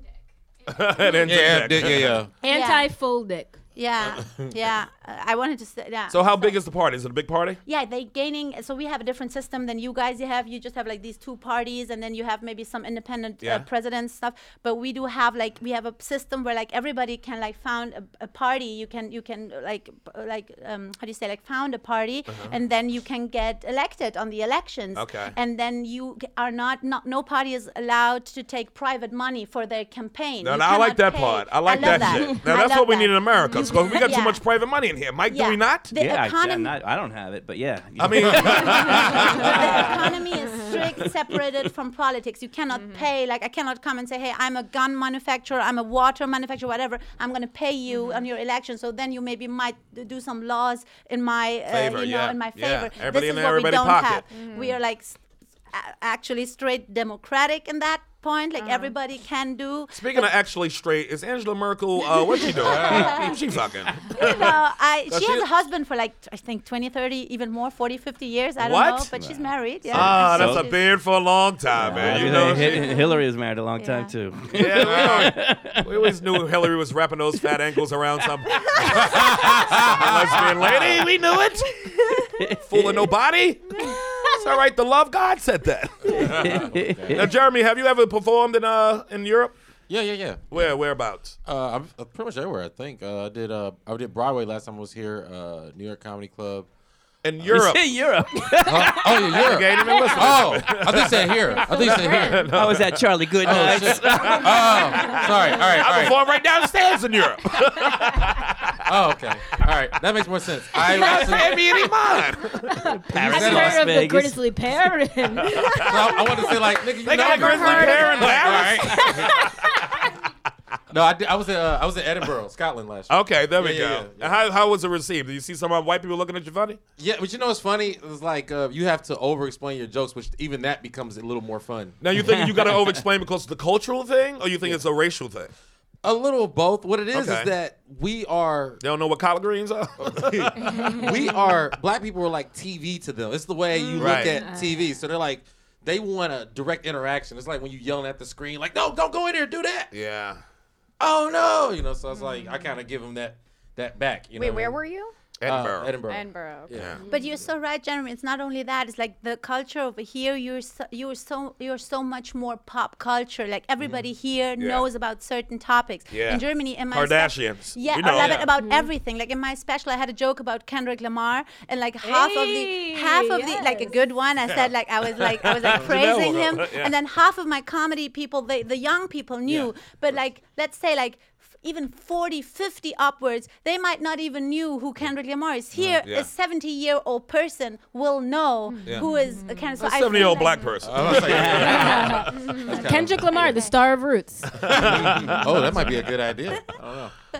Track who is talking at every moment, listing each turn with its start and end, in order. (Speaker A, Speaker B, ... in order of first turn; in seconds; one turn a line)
Speaker A: 0.7-2.2
Speaker B: 1.2-2.3
Speaker C: 2.3-3.6
Speaker D: 2.5-2.9
Speaker D: 3.8-6.6
Speaker B: 4.1-4.5
Speaker A: 6.1-7.6
Speaker D: 7.7-33.2
Speaker A: 24.9-25.4
Speaker A: 30.4-35.9
Speaker C: 31.7-32.4
Speaker E: 33.5-34.0
Speaker D: 33.7-34.4
Speaker D: 35.3-36.8
Speaker F: 36.0-40.0
Speaker A: 38.0-40.0
Speaker D: 38.4-60.3
Speaker E: 42.7-43.1
Speaker E: 47.9-48.2
Speaker A: 51.7-54.2
Speaker E: 54.3-54.8
Speaker E: 58.6-58.9
Speaker A: 59.9-65.5
Speaker D: 62.4-63.4
Speaker B: 62.6-63.3
Speaker D: 64.1-70.8
Speaker A: 68.6-69.1
Speaker A: 69.9-72.9
Speaker F: 69.9-70.7
Speaker F: 71.8-76.7
Speaker E: 73.8-74.1
Speaker A: 74.5-82.0
Speaker F: 77.4-77.8
Speaker F: 78.5-79.7
Speaker B: 79.0-81.0
Speaker F: 82.3-83.1
Speaker A: 82.7-89.5
Speaker F: 86.1-87.3
Speaker B: 86.1-87.3
Speaker B: 89.9-90.4
Speaker A: 90.5-91.4
Speaker B: 91.4-96.7
Speaker A: 97.2-97.9
Speaker F: 97.5-99.5
Speaker B: 98.6-102.5
Speaker A: 99.4-108.8
Speaker C: 99.7-100.3
Speaker C: 101.3-102.5
Speaker F: 102.5-104.8
Speaker B: 103.4-106.2
Speaker B: 108.9-112.0
Speaker A: 110.8-113.8
Speaker C: 112.6-120.0
Speaker F: 113.1-114.5
Speaker B: 113.3-113.9
Speaker A: 115.4-115.9
Speaker B: 115.8-119.5
Speaker A: 117.0-119.4
Speaker E: 117.7-118.2
Speaker B: 120.9-124.4
Speaker A: 123.1-126.8
Speaker B: 127.0-132.0
Speaker A: 132.0-135.5
Speaker F: 132.2-133.0
Speaker B: 136.0-138.8
Speaker A: 137.1-137.5
Speaker A: 138.8-141.1
Speaker B: 140.0-149.9
Speaker C: 141.1-141.6
Speaker E: 143.8-144.3
Speaker A: 144.0-144.3
Speaker C: 144.0-144.9
Speaker A: 149.9-150.4
Speaker B: 151.0-154.8
Speaker E: 152.1-152.7
Speaker E: 154.4-155.1
Speaker A: 155.4-156.0
Speaker B: 155.5-157.4
Speaker E: 156.0-156.8
Speaker A: 156.7-157.0
Speaker D: 157.1-190.7
Speaker A: 164.6-164.9
Speaker A: 166.1-168.4
Speaker B: 168.1-168.5
Speaker C: 168.5-168.9
Speaker C: 172.0-174.0
Speaker A: 175.2-176.9
Speaker A: 186.0-186.3
Speaker E: 188.7-190.7
Speaker A: 189.8-192.6
Speaker B: 190.8-193.6
Speaker F: 191.2-191.9
Speaker C: 191.6-194.6
Speaker A: 194.5-196.0
Speaker B: 194.6-197.1